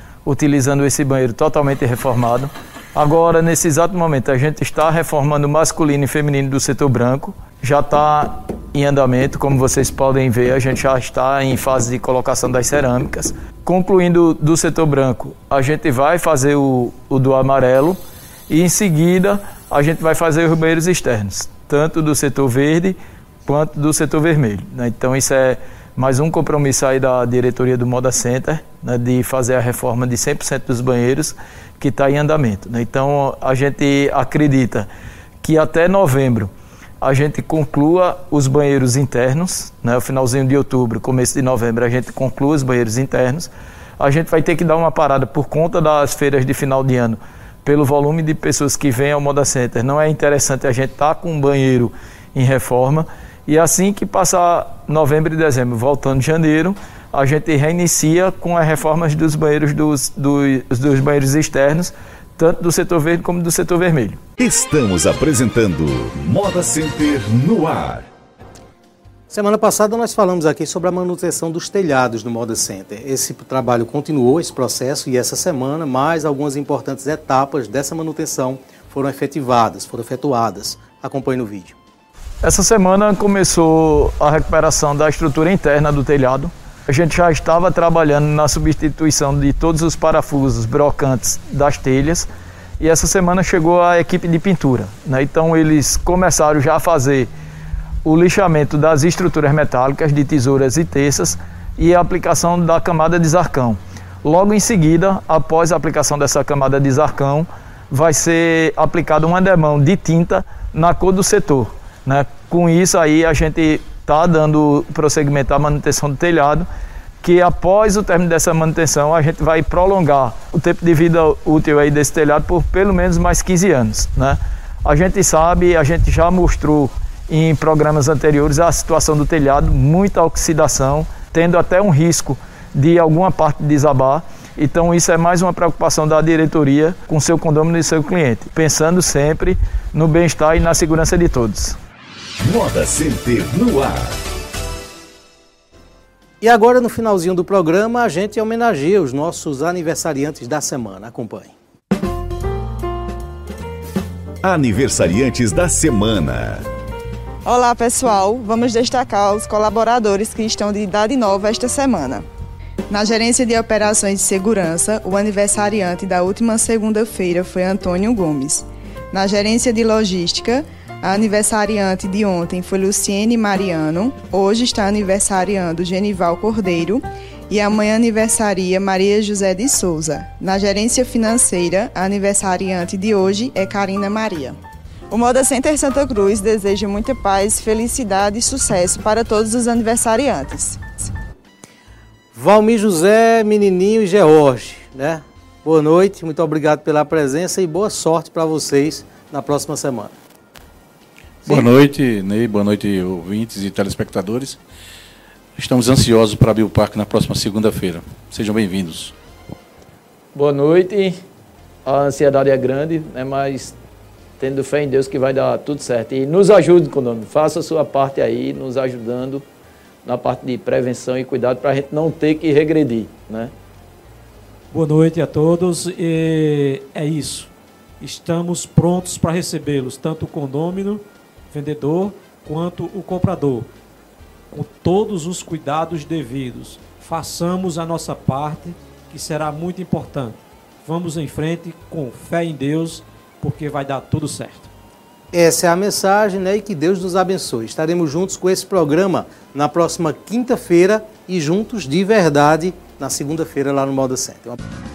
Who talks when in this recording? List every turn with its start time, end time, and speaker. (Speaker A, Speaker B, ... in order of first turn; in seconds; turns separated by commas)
Speaker A: 0.2-23.0, Speaker A: 23.5-34.9, Speaker A: 35.4-36.5, Speaker A: 37.0-64.2, Speaker B: 64.4-68.1, Speaker C: 69.3-81.8, Speaker A: 82.4-92.3, Speaker A: 92.8-97.3, Speaker A: 98.0-116.7, Speaker A: 117.2-141.8, Speaker B: 142.4-144.2, Speaker C: 146.4-151.5, Speaker B: 154.4-156.7, Speaker D: 157.5-162.2, Speaker D: 162.9-184.6, Speaker D: 185.1-190.9, Speaker C: 192.3-200.1, Speaker E: 201.4-204.6, Speaker E: 205.6-209.1, Speaker A: 210.3-211.2, Speaker A: 211.8-213.8, Speaker A: 214.4-219.4, Speaker A: 220.1-223.5, Speaker F: 224.7-227.5, Speaker F: 228.0-233.7, Speaker F: 234.5-244.7, Speaker C: 245.3-254.6